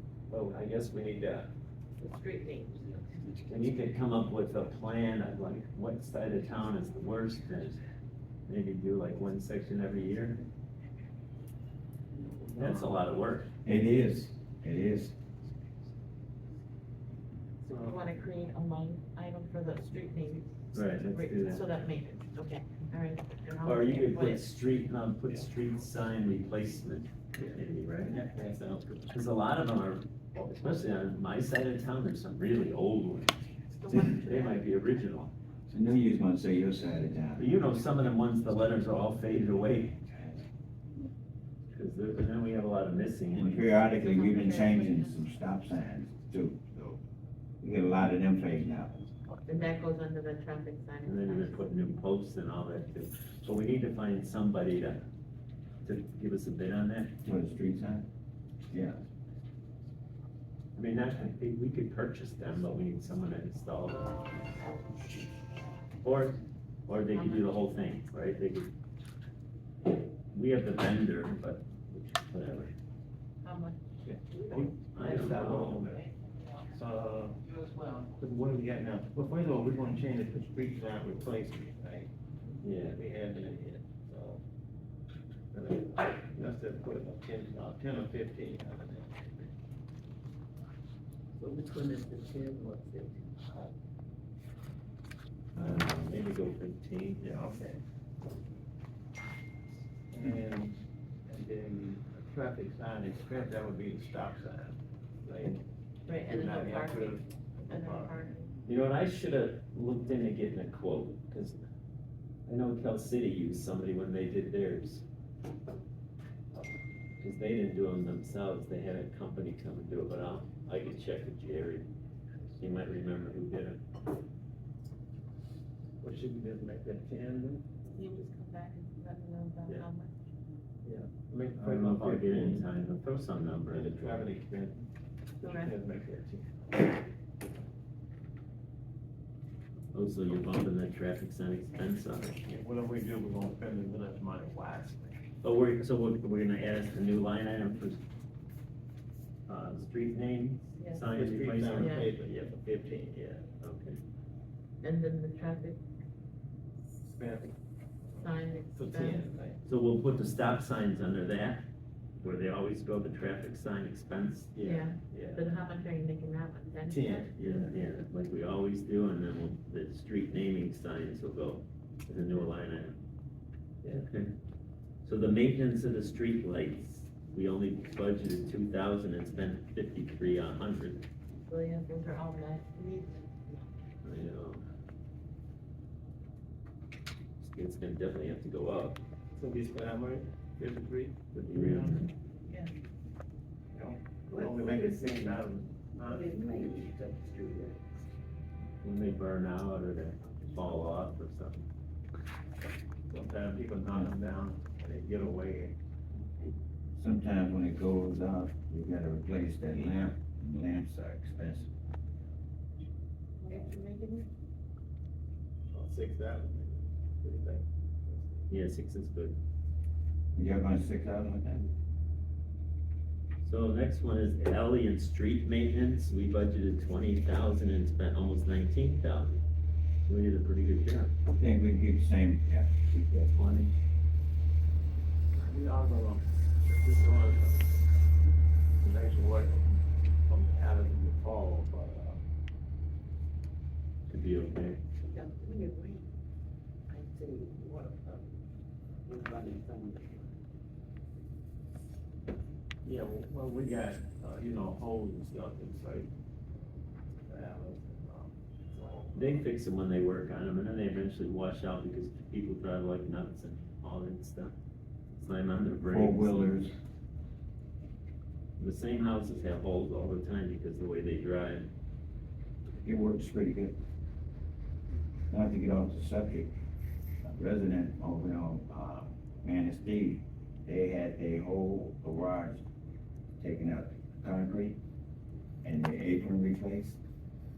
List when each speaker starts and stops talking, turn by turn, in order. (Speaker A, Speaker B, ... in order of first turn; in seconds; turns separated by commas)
Speaker A: 0.3-1.5, Speaker B: 2.0-3.0, Speaker A: 3.5-7.8, Speaker A: 8.4-10.4, Speaker C: 12.1-13.0, Speaker A: 12.6-13.5, Speaker D: 13.6-15.1, Speaker C: 17.6-18.1, Speaker B: 17.7-24.4, Speaker A: 20.7-21.6, Speaker A: 23.6-28.2, Speaker C: 27.4-29.1, Speaker A: 29.1-35.3, Speaker B: 33.7-34.6, Speaker D: 35.7-37.5, Speaker A: 37.4-40.0, Speaker A: 41.7-43.7, Speaker D: 43.3-47.0, Speaker B: 43.8-45.2, Speaker D: 47.6-49.2, Speaker B: 49.5-51.7, Speaker A: 51.0-55.0, Speaker A: 55.8-57.1, Speaker D: 57.2-58.1, Speaker D: 58.7-59.0, Speaker A: 60.7-64.2, Speaker A: 66.0-68.7, Speaker B: 67.1-67.5, Speaker A: 70.3-72.7, Speaker B: 73.4-73.8, Speaker C: 74.0-76.0, Speaker A: 74.9-75.9, Speaker B: 75.3-76.0, Speaker C: 76.7-84.4, Speaker A: 82.6-83.0, Speaker C: 85.5-89.5, Speaker E: 91.4-93.2, Speaker C: 92.0-93.0, Speaker A: 95.5-97.2, Speaker C: 97.2-97.8, Speaker C: 100.1-105.6, Speaker B: 106.0-108.5, Speaker C: 106.2-108.2, Speaker A: 108.7-111.6, Speaker A: 112.5-115.0, Speaker A: 117.2-121.9, Speaker A: 122.6-123.8, Speaker C: 126.0-127.7, Speaker B: 127.9-130.1, Speaker C: 130.8-132.7, Speaker A: 131.6-134.2, Speaker C: 133.7-136.6, Speaker B: 135.4-135.7, Speaker A: 139.9-142.4, Speaker C: 142.4-145.2, Speaker A: 145.4-148.0, Speaker A: 149.5-152.0, Speaker B: 150.8-151.1, Speaker C: 151.1-153.5, Speaker B: 151.7-152.1, Speaker A: 153.6-154.0, Speaker B: 154.8-155.8, Speaker C: 157.0-157.6, Speaker C: 158.1-159.6, Speaker B: 158.2-159.2, Speaker A: 159.6-161.6, Speaker A: 162.2-164.6, Speaker C: 164.6-165.1, Speaker B: 164.6-167.3, Speaker A: 165.1-165.4, Speaker C: 166.9-167.7, Speaker A: 167.4-173.0, Speaker A: 173.9-174.3, Speaker A: 175.0-181.0, Speaker B: 181.5-183.7, Speaker A: 184.0-184.6, Speaker A: 187.4-189.0, Speaker C: 189.3-192.1, Speaker A: 191.4-192.1, Speaker B: 192.4-192.7, Speaker C: 193.7-196.4, Speaker E: 194.4-195.1, Speaker E: 196.1-197.8, Speaker A: 198.8-201.7, Speaker C: 203.1-205.8, Speaker D: 206.9-211.7, Speaker B: 213.4-214.3, Speaker C: 215.7-218.5, Speaker A: 218.5-219.4, Speaker D: 220.3-221.7, Speaker A: 223.4-229.4, Speaker A: 230.1-231.1, Speaker D: 231.3-233.3, Speaker A: 233.3-233.7, Speaker C: 235.3-237.8, Speaker C: 238.8-242.2, Speaker A: 244.1-244.8, Speaker B: 245.1-246.0, Speaker E: 247.2-247.8, Speaker C: 247.5-248.2, Speaker E: 249.1-250.0, Speaker C: 249.1-250.1, Speaker C: 252.8-259.4, Speaker A: 259.1-264.5, Speaker A: 265.1-266.6, Speaker D: 265.9-266.8, Speaker A: 268.6-271.7, Speaker D: 272.8-273.8, Speaker D: 275.3-276.5, Speaker D: 277.2-282.6, Speaker D: 283.4-284.8, Speaker D: 285.6-287.0